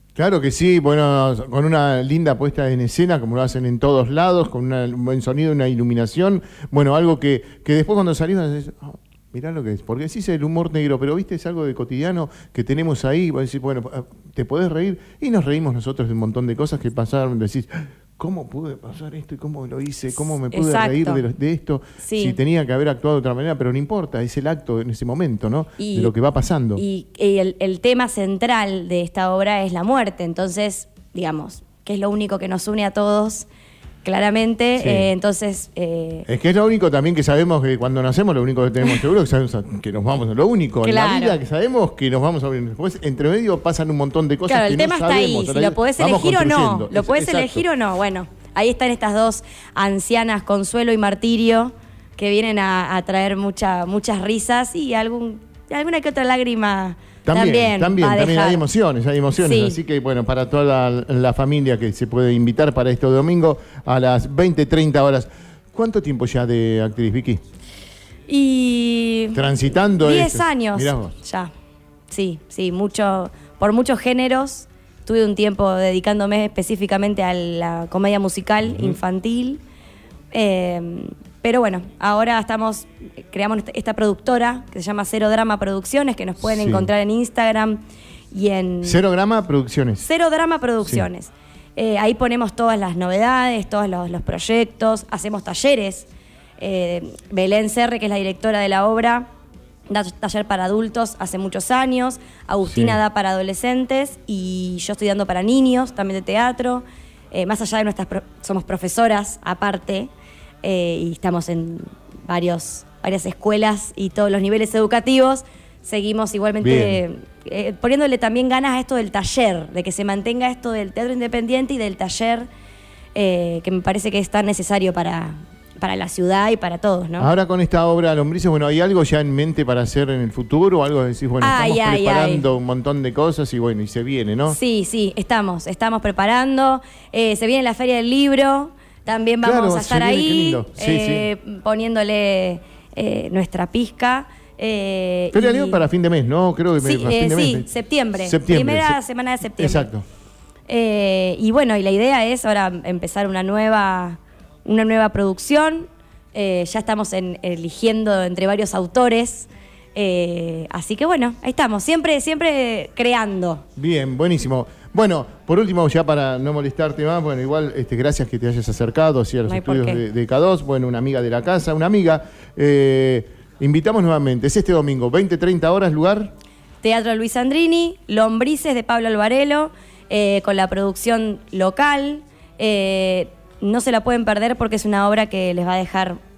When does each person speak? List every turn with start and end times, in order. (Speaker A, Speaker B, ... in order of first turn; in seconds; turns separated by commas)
Speaker A: 0.2-26.8, Speaker B: 20.4-21.2, Speaker B: 22.0-22.4, Speaker B: 25.8-26.1, Speaker B: 26.8-33.5, Speaker B: 34.0-36.3, Speaker A: 34.8-35.1, Speaker A: 36.3-47.6, Speaker B: 40.8-41.4, Speaker B: 44.5-58.6, Speaker A: 57.3-67.4, Speaker B: 59.4-59.8, Speaker B: 68.3-69.4, Speaker A: 69.3-71.2, Speaker B: 70.0-71.5, Speaker B: 72.1-79.6, Speaker A: 78.7-78.9, Speaker B: 80.3-87.8, Speaker A: 86.4-86.9, Speaker B: 88.3-89.0, Speaker A: 88.8-90.1, Speaker B: 90.0-96.1, Speaker B: 96.6-99.3, Speaker B: 99.9-110.1, Speaker A: 102.7-103.0, Speaker B: 110.6-122.5, Speaker A: 116.6-117.0, Speaker B: 123.2-127.3, Speaker A: 127.2-134.6, Speaker B: 131.4-132.4, Speaker B: 134.5-145.8, Speaker A: 139.4-141.3, Speaker A: 145.3-147.7, Speaker B: 146.8-149.9, Speaker A: 148.2-149.0, Speaker A: 149.6-150.1, Speaker B: 150.7-163.6, Speaker A: 163.8-176.3, Speaker B: 169.5-170.0, Speaker B: 176.8-186.2